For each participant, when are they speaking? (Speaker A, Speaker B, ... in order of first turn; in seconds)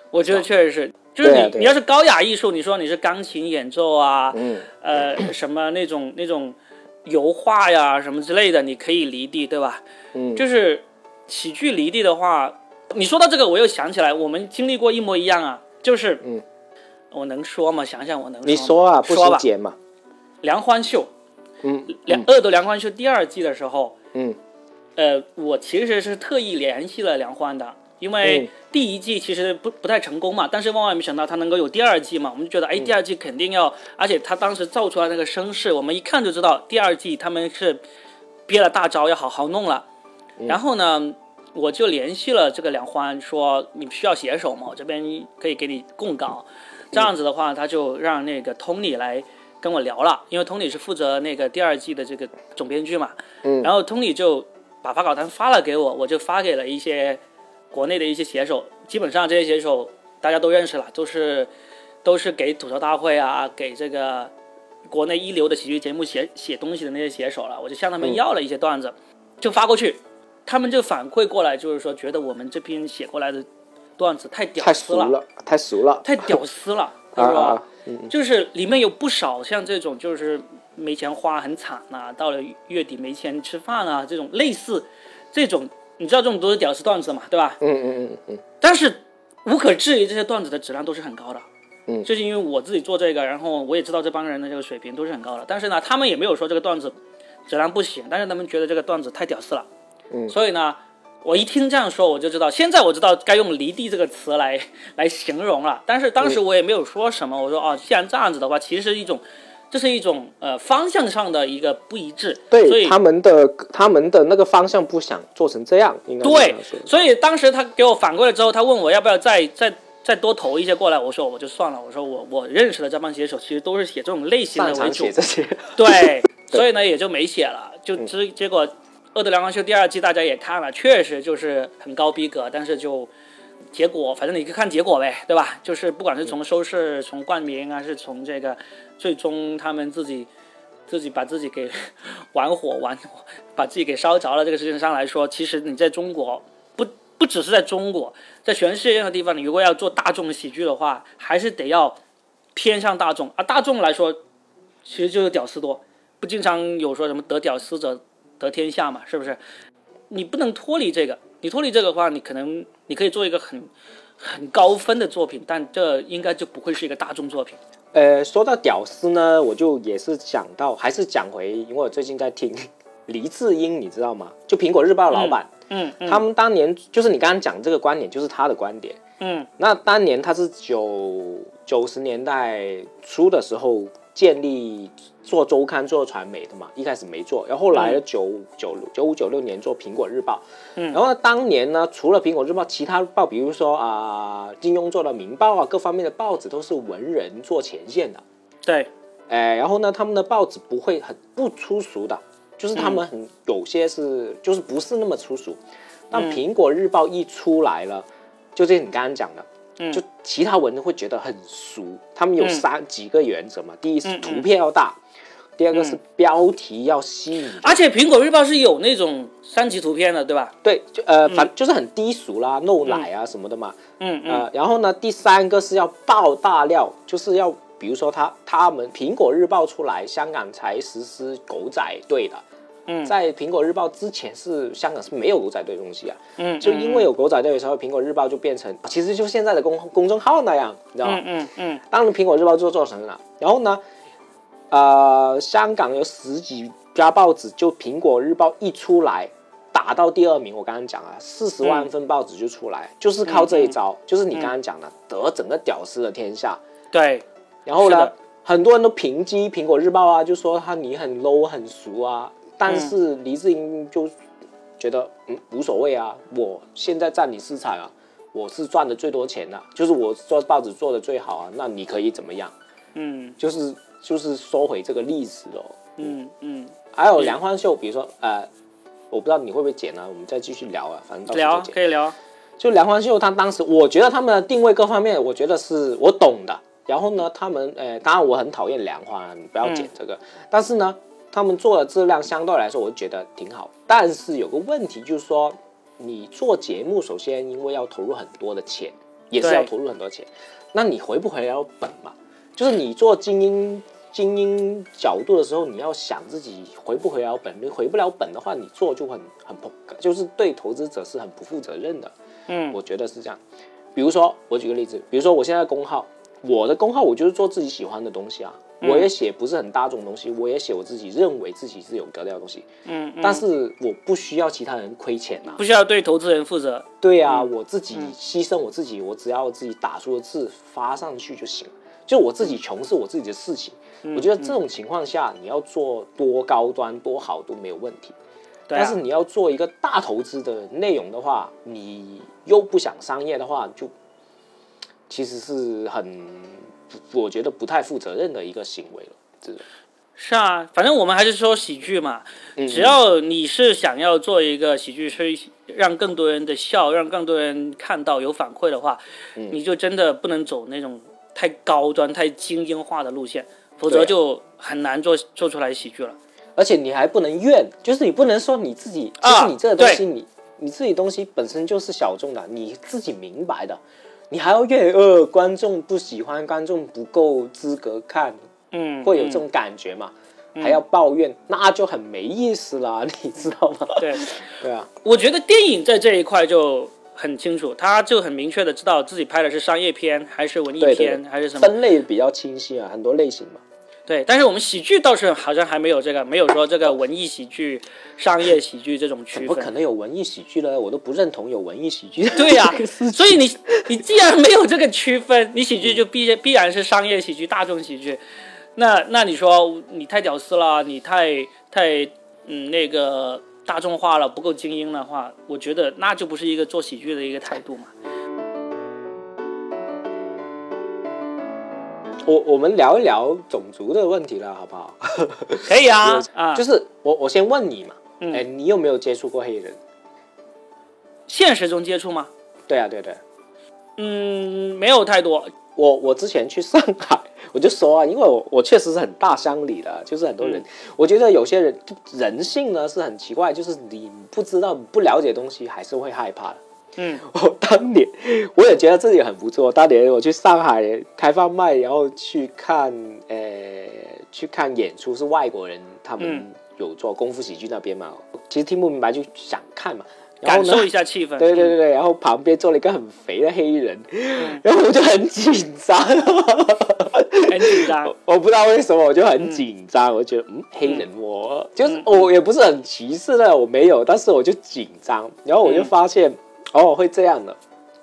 Speaker A: 0.1-9.8, 10.3-16.2, 17.1-19.4, 20.4-21.1, 21.9-24.0, 25.0-37.8, 38.5-39.9, 40.5-57.2, 57.7-61.5, 62.0-64.3, 64.9-73.5, 74.0-75.2, 76.0-87.6, 88.6-91.5, 92.0-97.0, 97.5-99.7, 100.3-113.0, 116.2-125.2, 125.8-133.1, 133.7-140.3, 140.9-152.0, 152.6-154.2, 154.8-159.4, 160.1-167.6, 175.1-176.2, 179.2-179.5, 187.7-188.0, 202.8-203.0, 206.1-206.4, 212.4-212.7, 214.0-214.5, 215.7-216.0, 217.6-220.6, 224.0-224.4, 232.9-233.1, 236.4-237.1, 241.0-241.8, 251.6-251.9, 253.2-253.8, 256.9-257.2, 257.8-258.1, 262.7-262.9, 272.9-273.4, 276.0-277.4, 281.3-282.1, 289.6-289.9, 299.4-299.7, 312.5-312.8, 318.8-319.1, 322.9-323.5, 325.6-328.1, 334.0-334.5, 338.7-339.0, 350.2-366.2, 369.2-370.0, 378.7-379.4, 384.0-384.3, 385.0-391.7, 394.1-399.7, 402.4-408.2, 408.8-417.9, 425.6-426.6, 431.3-432.3, 434.0-435.5, 447.0-447.2, 456.2-456.4, 460.4-461.8, 464.4-464.6, 467.4-468.1, 471.9-472.2, 475.6-475.9
Speaker B: 1.2-1.8, 4.3-4.7, 10.1-10.4, 18.4-19.8, 21.6-22.3, 28.2-28.5, 53.4-53.7, 74.6-76.4, 77.2-78.1, 87.6-88.4, 112.5-116.9, 124.5-126.6, 167.9-175.5, 176.0-179.0, 179.6-198.2, 199.3-215.0, 215.6-217.8, 220.6-232.4, 233.1-241.2, 241.9-243.8, 244.7-256.6, 257.7-264.1, 264.8-272.5, 273.4-276.1, 276.9-278.5, 279.1-281.8, 282.6-312.1, 312.7-313.4, 313.9-322.7, 323.2-325.6, 327.0-338.1, 338.7-343.9, 345.1-349.6, 352.6-353.0, 363.9-364.1, 366.6-378.4, 379.0-384.9, 390.8-393.6, 399.3-404.0, 422.3-429.8, 432.7-433.2, 435.8-446.6, 447.2-477.6